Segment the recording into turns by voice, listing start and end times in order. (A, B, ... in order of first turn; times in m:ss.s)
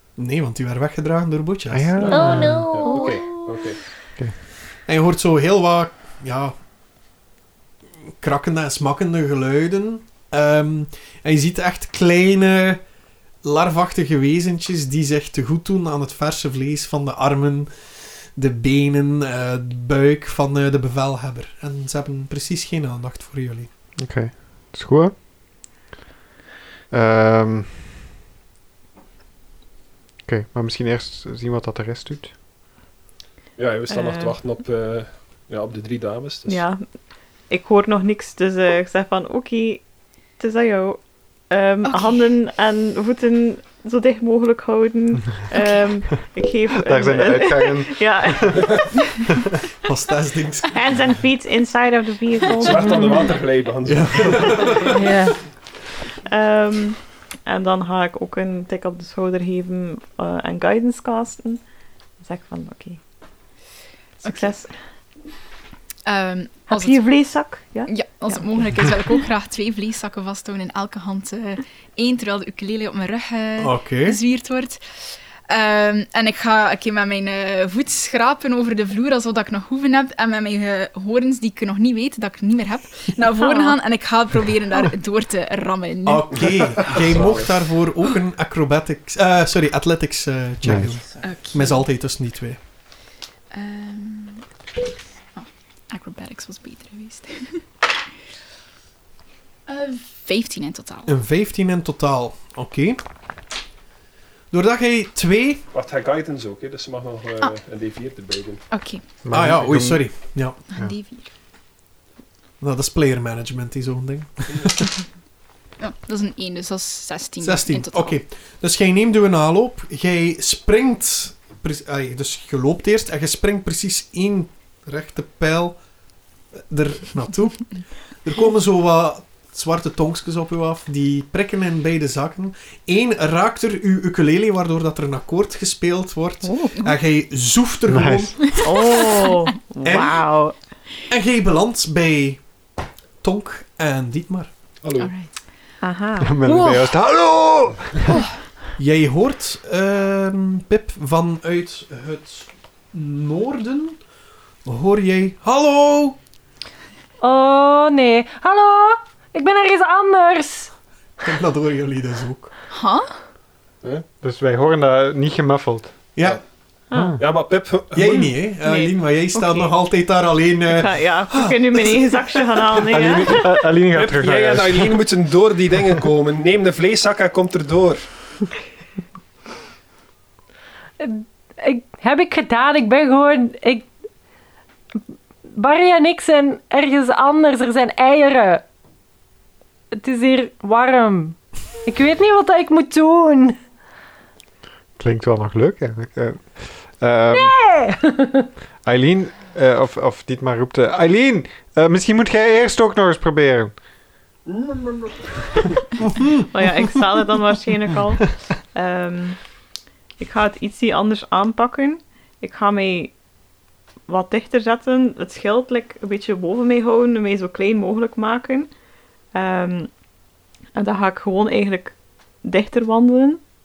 0:00.2-0:02.5 A
0:01.7-0:02.7 B
0:02.1-0:03.7 C
0:02.1-0:03.1 D
0:02.6-0:03.8 E
0:04.8-0:06.5 A
0:08.1-0:12.8 A
0:13.4-0:23.7 A
0:24.0-0:25.1 B
0:26.9-0:27.8 B
0:30.2-0:32.3 B
0:33.6-0:36.6 E
0:33.9-0:34.4 C
0:36.5-0:36.8 C
0:37.5-0:39.8 C
0:40.4-0:48.8 C
0:41.8-0:42.3 F
0:46.8-0:48.7 B
0:49.8-0:50.8 A
0:50.7-0:53.4 C
0:52.4-0:54.9 E
0:53.8-0:54.9 A
0:54.9-0:55.4 D
0:56.2-1:01.6 C
1:02.2-1:03.0 C
1:04.2-1:04.7 C
1:04.2-1:04.5 F
1:06.0-1:07.1 F
1:06.7-1:09.0 C
1:07.8-1:26.6 F
1:13.6-1:14.2 A
1:23.4-1:23.7 C
1:26.0-1:32.6 A
1:26.8-1:27.6 E
1:30.6-1:31.2 B
1:31.2-1:31.9 F
1:33.5-1:34.5 F
1:35.3-1:37.6 F
1:39.7-1:41.1 F
1:41.0-1:43.0 A
1:44.5-1:45.6 A
1:45.7-1:48.6 E
1:48.7-1:49.0 F
1:49.2-1:50.9 B
1:49.3-1:50.6 A
1:50.7-1:51.3 F
1:52.6-1:55.0 A
1:55.8-1:58.2 F
1:57.4-2:05.8 A
2:06.5-2:18.6 A
2:16.4-2:16.8 C
2:17.9-2:18.4 B
2:18.5-2:20.6 C
2:18.5-2:19.4 F
2:19.8-2:20.3 A
2:21.1-2:22.5 A
2:23.2-2:24.5 A
2:24.8-2:25.1 E
2:25.0-2:25.4 F
2:25.8-2:26.4 C
2:26.2-2:28.2 B
2:26.4-2:26.9 F
2:28.8-2:34.0 A
2:34.6-2:36.2 A
2:37.2-2:40.7 D
2:41.2-2:42.5 A
2:42.7-2:43.1 F
2:44.2-2:46.1 B
2:46.9-2:47.3 C
2:46.9-2:47.2 B
2:47.2-2:48.4 E
2:47.9-2:52.8 A
2:48.1-2:49.7 C
2:50.7-2:53.7 C
2:52.9-2:55.0 B
2:53.9-2:58.0 E
3:01.0-3:03.9 D
3:05.5-3:08.6 D
3:09.9-3:13.6 D
3:15.0-3:17.6 B
3:17.3-3:18.5 D
3:18.8-3:23.7 B
3:24.5-3:25.3 E
3:26.5-3:29.4 C
3:30.2-3:33.2 C
3:34.1-3:38.7 C
3:39.3-3:39.9 C
3:40.7-3:43.4 C